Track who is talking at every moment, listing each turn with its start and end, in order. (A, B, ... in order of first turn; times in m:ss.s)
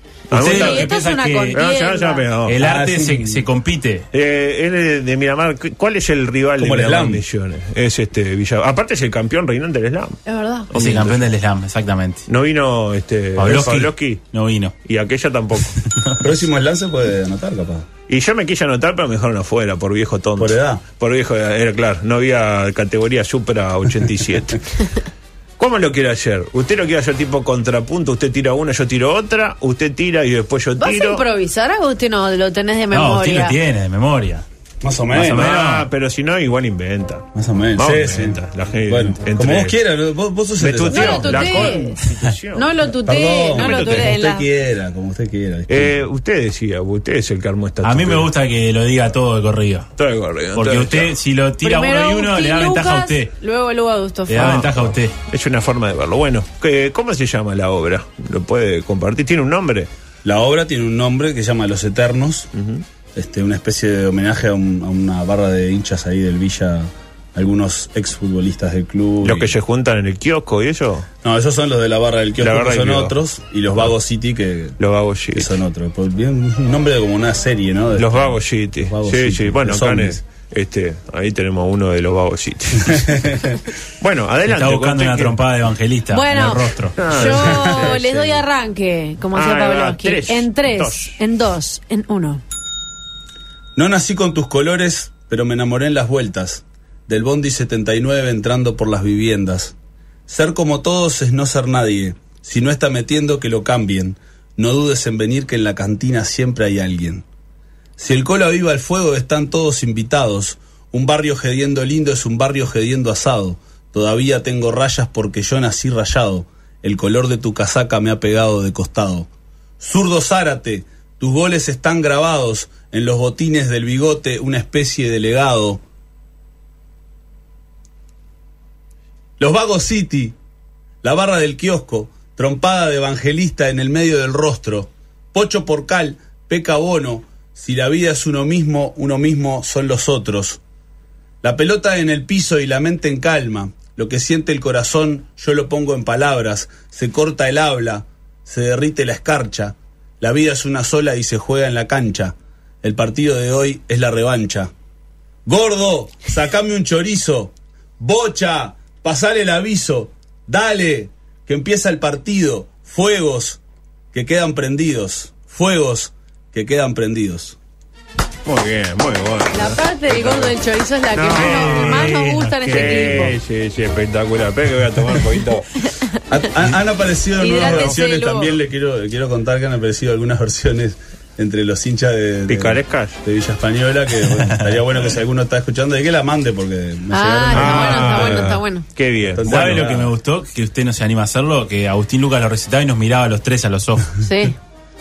0:00.3-0:00.9 A
0:00.3-0:01.6 B
0:00.4-0:02.3 C
0:01.5-0:02.6 A
0:02.4-0:04.1 B
0:02.6-0:03.4 D
0:04.1-0:10.2 A
0:06.6-0:07.2 D
0:10.2-0:10.7 C
0:10.7-0:11.2 A
0:10.7-0:12.2 B
0:12.3-0:14.2 A
0:13.4-0:14.7 B
0:14.8-0:15.8 A
0:16.2-0:17.9 D
0:18.1-0:24.7 A
0:20.4-0:20.8 D
0:25.6-0:31.2 A
0:30.8-0:33.6 C
0:32.9-0:34.4 B
0:34.8-0:35.5 D
0:35.1-0:35.9 B
0:35.3-0:37.2 A
0:37.3-0:42.1 D
0:37.8-0:39.8 A
0:40.6-0:42.7 A
0:40.8-0:42.0 C
0:42.5-0:44.5 C
0:43.0-0:46.0 D
0:43.5-0:44.2 A
0:45.7-0:48.3 A
0:47.8-0:49.9 B
0:50.0-0:51.2 A
0:50.5-0:53.3 B
0:51.6-0:54.7 C
0:54.3-0:55.1 B
0:54.4-0:59.9 A
1:00.2-1:02.5 D
1:02.5-1:02.8 A
1:03.1-1:09.5 D
1:09.2-1:11.1 A
1:11.2-1:14.8 D
1:12.4-1:13.1 A
1:14.8-1:15.5 A
1:15.3-1:20.2 D
1:18.0-1:23.4 A
1:22.8-1:23.6 D
1:24.0-1:25.4 A
1:24.4-1:27.0 B
1:26.1-1:32.4 C
1:27.0-1:28.4 A
1:27.1-1:28.0 D
1:29.3-1:31.2 A
1:33.8-1:39.7 D
1:40.3-1:47.2 D
1:48.0-1:59.3 D
1:59.8-2:05.8 D
2:09.4-2:10.4 D
2:11.0-2:20.6 D
2:21.4-2:34.7 D
2:35.4-2:43.6 D
2:44.1-2:47.6 D
2:48.4-2:50.5 A
2:49.5-2:53.4 C
2:51.1-2:55.8 A
2:56.3-3:08.6 D
2:57.4-2:58.6 C
2:57.6-2:58.0 A
3:02.5-3:03.2 A
3:04.4-3:04.7 B
3:07.1-3:08.8 C
3:07.5-3:10.0 A
3:09.2-3:10.1 D
3:09.4-3:14.2 B
3:14.2-3:14.6 C